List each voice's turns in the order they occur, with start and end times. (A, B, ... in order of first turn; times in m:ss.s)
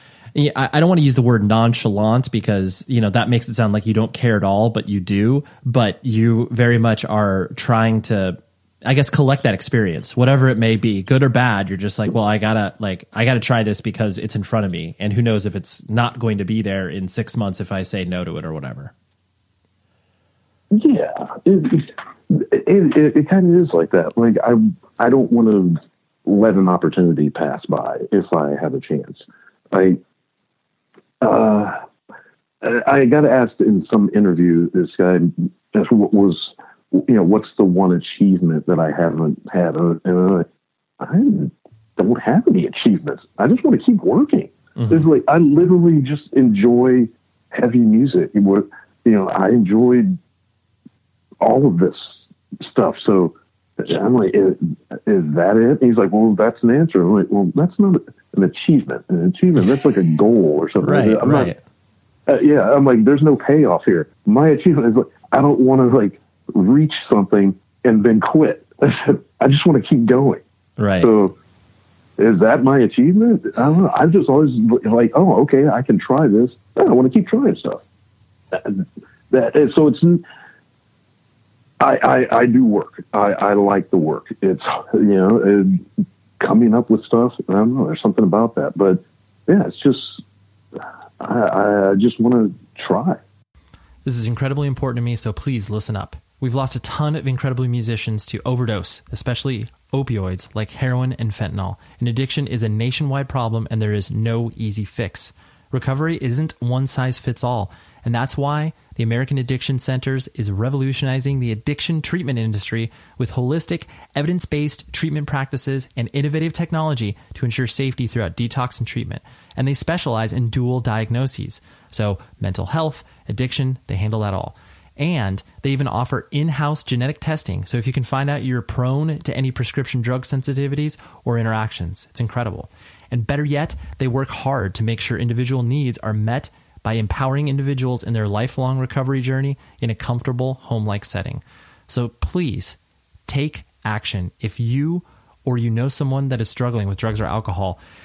0:00.3-0:18.9 A
0:20.7-0:30.0 B
0:31.2-0:31.8 B
0:32.6-0:40.4 B
0:41.0-0:50.2 B
0:44.8-0:45.0 A
0:51.4-1:01.5 B
1:00.8-1:01.5 A
1:02.3-1:10.4 B
1:10.8-1:11.1 A
1:11.0-1:11.3 B
1:12.2-1:17.8 B
1:18.5-1:20.2 B
1:21.8-1:25.8 B
1:26.4-1:30.2 B
1:31.2-1:33.2 B
1:34.0-2:27.8 C